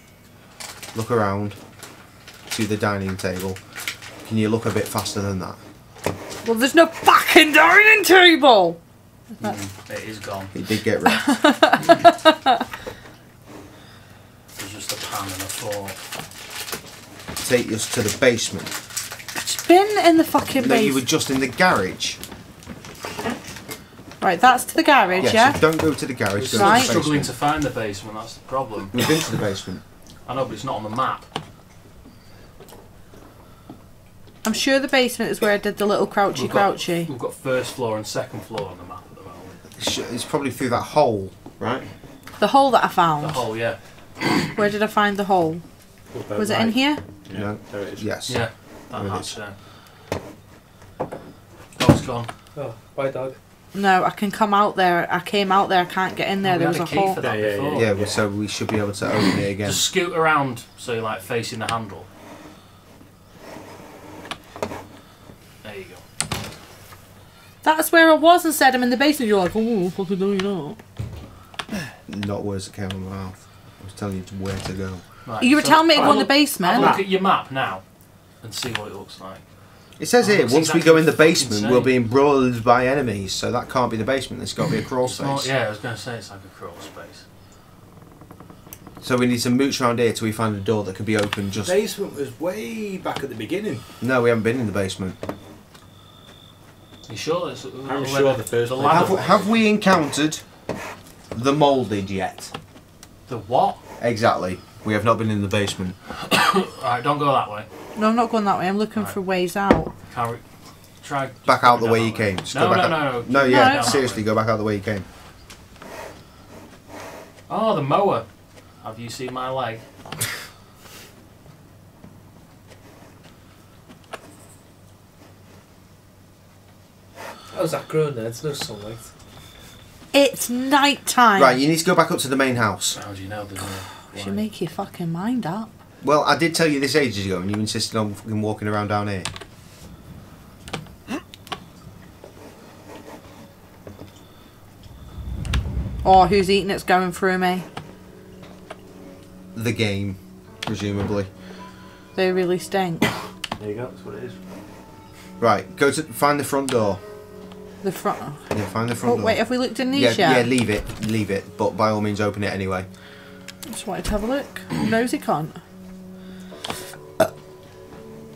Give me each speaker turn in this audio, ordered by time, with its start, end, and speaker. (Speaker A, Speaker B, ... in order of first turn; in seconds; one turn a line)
Speaker A: 0.9-1.6
Speaker A: 2.5-3.6
Speaker A: 4.2-5.6
Speaker B: 6.4-8.8
Speaker C: 9.4-10.5
Speaker A: 10.5-11.4
Speaker B: 11.1-12.6
Speaker C: 14.6-16.0
Speaker A: 17.4-18.7
Speaker B: 19.3-21.0
Speaker A: 20.6-22.2
Speaker B: 24.2-25.6
Speaker A: 25.2-27.3
Speaker C: 26.4-29.1
Speaker B: 26.5-26.9
Speaker A: 28.9-29.8
Speaker C: 30.2-31.2
Speaker B: 34.4-37.1
Speaker C: 36.3-39.6
Speaker A: 39.8-41.8
Speaker B: 42.4-43.4
Speaker C: 43.2-43.8
Speaker B: 44.5-45.6
Speaker D: 46.1-48.0
Speaker B: 46.3-47.0
Speaker A: 47.3-49.4
Speaker C: 48.2-49.5
Speaker C: 51.8-52.3
Speaker E: 52.5-53.4
Speaker B: 53.7-57.2
Speaker C: 56.4-57.9
Speaker D: 57.2-58.2
Speaker A: 57.7-59.9
Speaker C: 59.6-62.1
Speaker C: 65.6-66.0
Speaker B: 67.6-70.8
Speaker A: 72.1-75.0
Speaker C: 75.2-79.5
Speaker B: 75.4-77.0
Speaker D: 75.9-77.0
Speaker A: 80.0-85.5
Speaker C: 80.2-81.9
Speaker C: 85.0-87.2
Speaker A: 89.0-91.8
Speaker D: 91.6-93.8
Speaker A: 94.0-95.2
Speaker C: 97.1-99.5
Speaker D: 97.8-99.5
Speaker A: 98.8-100.4
Speaker A: 101.3-102.5
Speaker C: 103.3-103.8
Speaker A: 104.0-106.0
Speaker C: 106.2-107.7
Speaker B: 108.0-109.9
Speaker C: 110.1-110.4
Speaker C: 111.0-114.3
Speaker A: 111.5-115.0
Speaker B: 113.5-114.0
Speaker C: 117.5-118.2
Speaker C: 118.8-119.8
Speaker E: 127.5-129.1
Speaker B: 130.1-131.6
Speaker A: 131.4-133.0
Speaker C: 132.9-134.4
Speaker B: 134.1-135.7
Speaker A: 136.0-139.3
Speaker B: 146.0-147.7
Speaker A: 149.5-151.3
Speaker B: 152.2-153.1
Speaker D: 153.6-154.4
Speaker A: 155.4-157.0
Speaker B: 157.8-158.4
Speaker A: 158.5-162.9
Speaker B: 159.0-160.5
Speaker B: 163.7-165.6